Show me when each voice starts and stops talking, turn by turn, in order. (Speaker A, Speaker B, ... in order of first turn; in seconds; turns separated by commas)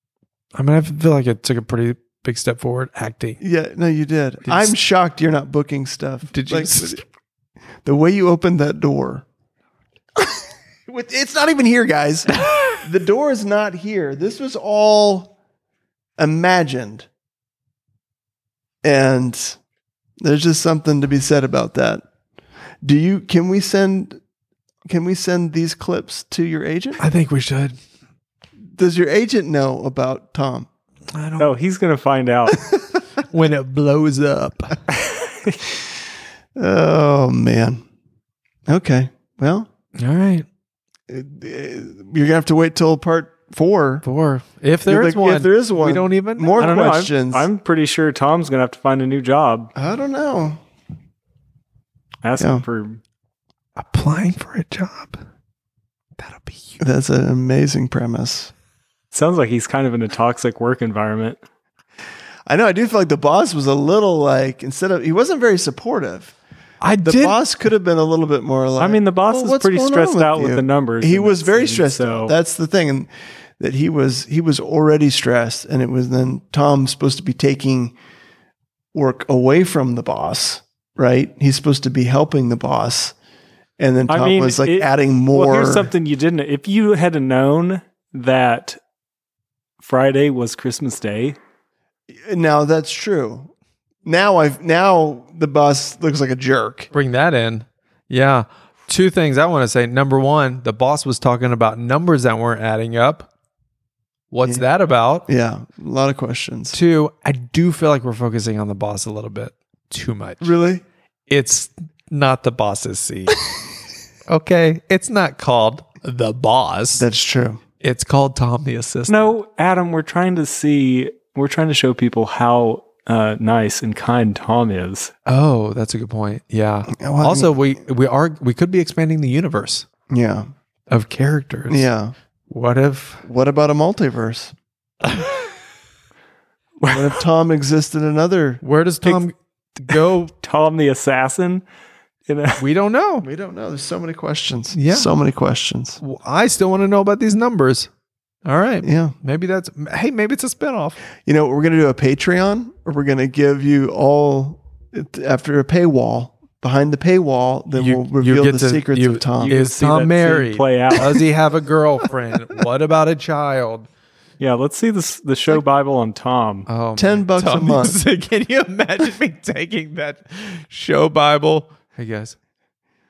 Speaker A: 0.5-3.4, Speaker B: 3.4-7.0, Speaker A: 4.5-4.7, Speaker A: 6.3-7.0, Speaker B: 7.8-9.2, Speaker B: 10.2-15.3, Speaker B: 16.2-17.1, Speaker B: 18.8-19.6, Speaker B: 20.2-22.0, Speaker B: 22.8-24.2, Speaker B: 24.9-27.0, Speaker A: 27.0-27.8, Speaker B: 28.7-30.7, Speaker A: 31.1-31.5, Speaker C: 31.4-32.6, Speaker A: 33.2-34.8, Speaker C: 35.0-35.6, Speaker B: 36.5-37.8, Speaker B: 38.7-39.7, Speaker A: 40.0-40.5, Speaker B: 41.1-44.0, Speaker A: 44.0-46.6, Speaker B: 44.9-47.5, Speaker C: 46.6-49.7, Speaker B: 49.8-50.6, Speaker C: 52.2-53.0, Speaker B: 52.4-52.6, Speaker A: 53.8-55.2, Speaker A: 56.2-56.8, Speaker B: 56.8-58.5, Speaker C: 59.1-61.4, Speaker B: 62.5-66.3, Speaker A: 66.8-67.4, Speaker B: 67.0-77.9, Speaker C: 68.8-72.3, Speaker B: 78.9-83.1, Speaker B: 83.8-85.9, Speaker C: 84.1-88.8, Speaker C: 89.8-91.3, Speaker B: 92.2-93.5, Speaker B: 94.0-96.9, Speaker A: 96.9-103.3, Speaker A: 104.3-105.3, Speaker B: 105.3-106.8, Speaker A: 106.7-110.5, Speaker B: 110.4-110.8, Speaker A: 111.3-113.4, Speaker A: 114.3-117.0, Speaker B: 116.9-117.6, Speaker A: 117.8-119.2, Speaker C: 119.1-125.1, Speaker A: 125.2-129.8, Speaker B: 126.9-127.5, Speaker B: 130.1-130.5, Speaker A: 130.9-131.9, Speaker B: 131.7-132.1, Speaker A: 132.5-133.2, Speaker B: 133.2-134.5, Speaker A: 135.1-135.3, Speaker B: 136.8-138.6, Speaker A: 138.6-140.3, Speaker C: 140.4-141.6, Speaker C: 142.3-142.6, Speaker A: 142.6-143.3, Speaker B: 143.2-146.0, Speaker A: 144.7-145.1, Speaker A: 146.0-147.9, Speaker A: 148.4-151.0, Speaker B: 148.8-149.1, Speaker B: 151.2-159.6, Speaker A: 157.8-163.9, Speaker C: 159.4-161.2, Speaker C: 164.4-166.7, Speaker A: 166.7-172.3, Speaker B: 167.0-168.0